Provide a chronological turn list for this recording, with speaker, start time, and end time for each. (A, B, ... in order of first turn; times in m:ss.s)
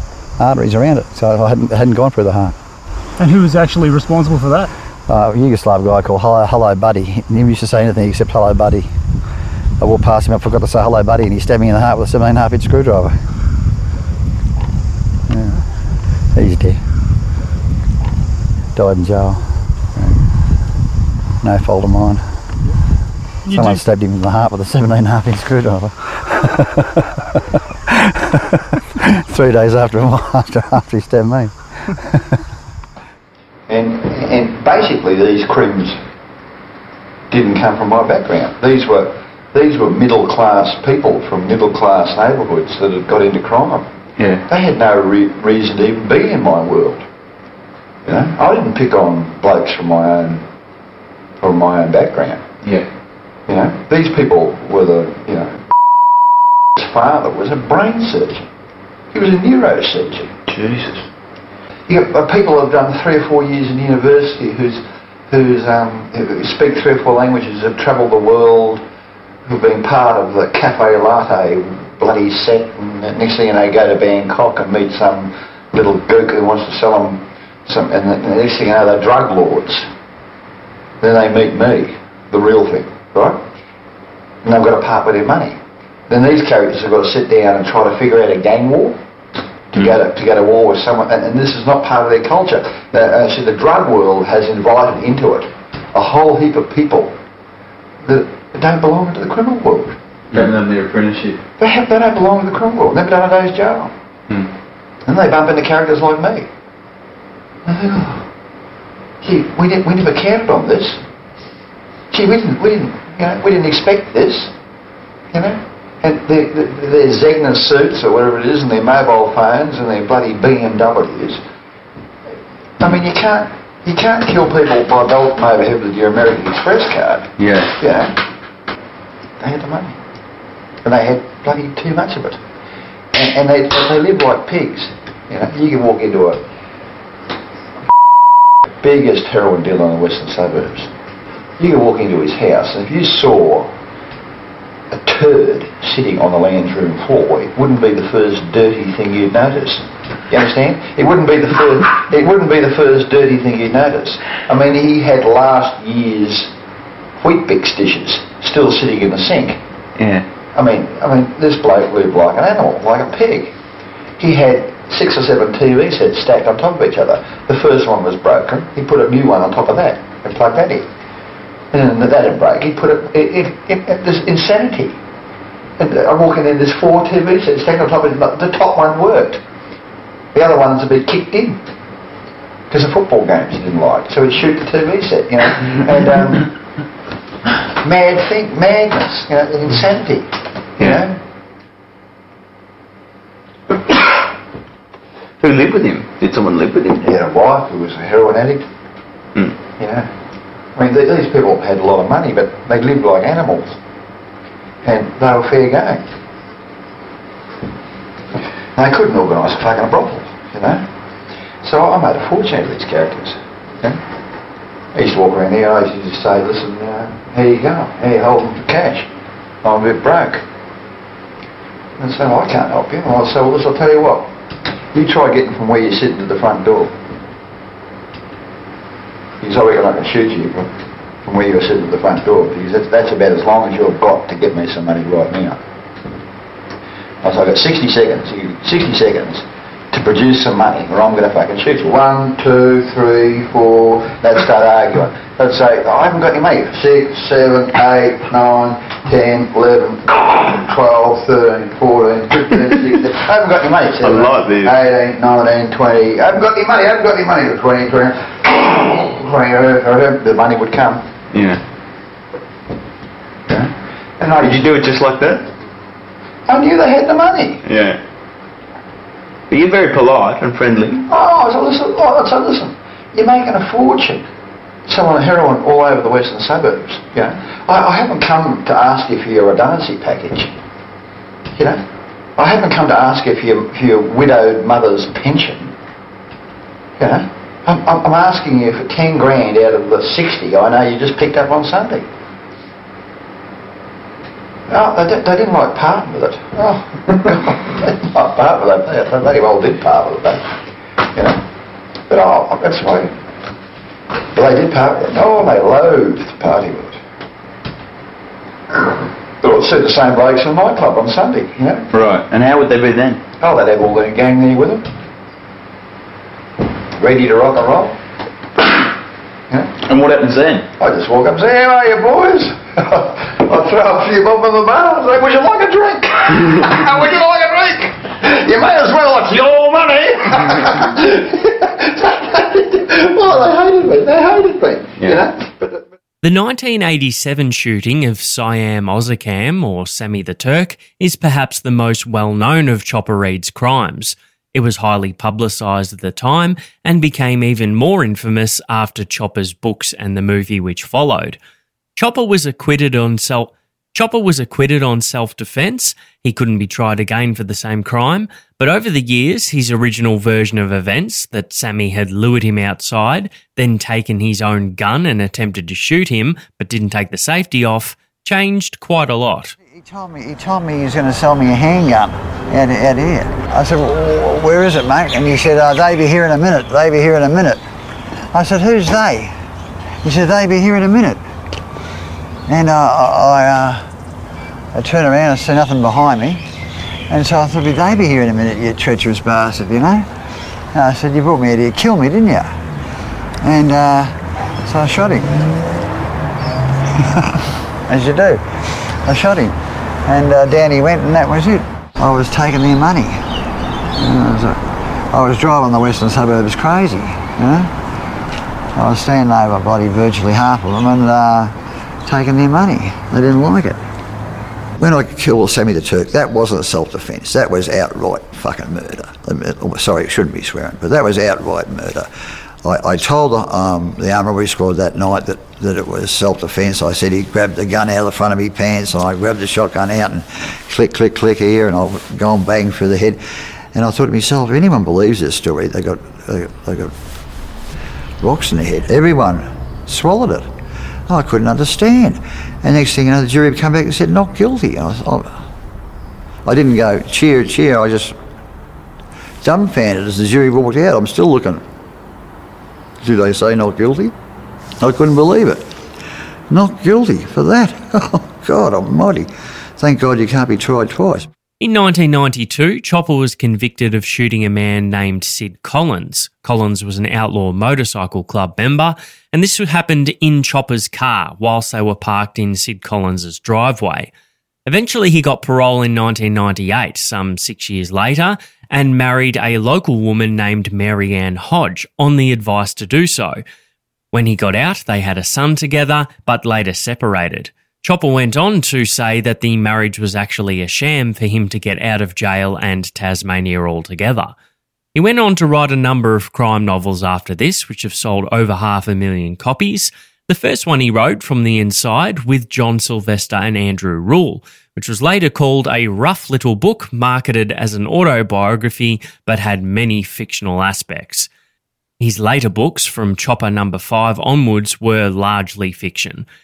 0:00.4-0:01.2 A
0:00.8-0:02.5 B
0:03.2-0:04.6 A
0:05.1-0:08.9 B
0:09.8-0:13.2 B
0:15.3-0:15.6 B
0:16.3-0:16.8 B
0:18.7-0:20.2 B
0:21.4-0:22.2 B
0:23.5-0:27.1 B
0:27.9-0:32.2 B
0:33.7-0:36.0 C
0:37.3-0:43.9 C
0:44.2-0:44.4 D
0:44.5-0:47.0 C
0:48.0-0:50.4 C
0:51.4-0:52.5 C
0:53.5-0:55.6 C
0:56.8-0:58.5 C
0:59.1-1:00.4 C
1:00.5-1:01.0 D
1:01.9-1:08.8 C
1:09.5-1:19.9 C
1:21.0-1:23.4 C
1:24.4-1:29.0 C
1:29.7-1:37.1 C
1:38.0-1:40.0 C
1:40.3-1:41.4 D
1:41.6-1:43.9 C
1:45.0-1:46.5 C
1:47.6-1:48.2 C
1:49.2-1:51.0 C
1:52.1-1:54.5 C
1:55.3-2:01.4 C
2:02.8-2:08.2 C
2:07.4-2:07.7 D
2:09.4-2:10.0 C
2:10.8-2:12.4 C
2:13.1-2:16.4 C
2:18.8-2:20.9 C
2:21.6-2:23.7 C
2:24.9-2:36.5 C
2:37.2-2:39.6 C
2:40.0-2:40.2 D
2:40.5-2:43.5 C
2:44.2-2:50.9 C
2:51.7-2:55.0 C
2:55.8-2:59.4 C
3:00.3-3:01.6 C
3:02.7-3:06.5 C
3:07.8-3:11.2 C
3:15.4-3:17.0 D
3:17.0-3:18.6 C
3:19.8-3:20.1 C
3:20.7-3:23.8 C
3:24.8-3:26.0 C
3:28.8-3:30.8 C
3:31.6-3:34.0 C
3:34.9-3:39.1 C
3:39.6-3:40.4 C
3:42.0-3:44.3 C
3:44.9-3:46.9 C
3:49.4-3:55.6 C
3:57.2-4:21.1 C
4:14.0-4:14.8 D
4:21.3-4:21.6 D
4:23.5-4:24.7 C
4:24.4-4:25.4 D
4:26.5-4:27.6 C
4:27.6-4:28.0 D
4:29.5-4:31.0 D
4:31.1-4:34.3 C
4:34.9-4:40.5 C
4:41.5-4:41.8 C
4:42.4-4:45.7 C
4:47.0-4:52.1 C
4:54.7-5:00.5 C
5:01.1-5:01.4 C
5:02.1-5:03.1 C
5:04.3-5:07.0 C
5:09.4-5:11.9 C
5:11.9-5:13.2 D
5:13.4-5:14.9 C
5:17.0-5:18.0 C
5:19.8-5:20.7 D
5:20.8-5:35.8 C
5:35.0-5:35.2 D
5:36.2-5:51.4 E
5:52.0-6:09.6 E
6:09.6-6:17.6 B
6:18.3-6:19.3 B
6:20.0-6:21.2 B
6:22.5-6:23.8 B
6:24.7-6:26.4 B
6:27.1-6:30.1 B
6:30.7-6:32.6 B
6:33.4-6:35.4 B
6:37.0-6:43.3 B
6:43.9-6:47.7 B
6:48.7-6:51.5 B
6:52.0-6:53.8 B
6:54.8-7:02.1 B
7:02.6-7:13.2 B
7:13.7-7:16.9 B
7:18.2-7:20.5 B
7:21.1-7:25.5 B
7:26.4-7:28.2 B
7:29.4-7:31.6 B
7:33.0-7:34.1 B
7:34.8-7:35.7 B
7:36.5-7:41.3 B
7:41.6-7:54.1 E
7:54.6-8:03.4 E
8:04.1-8:14.3 E
8:14.9-8:31.3 E
8:32.0-8:36.2 E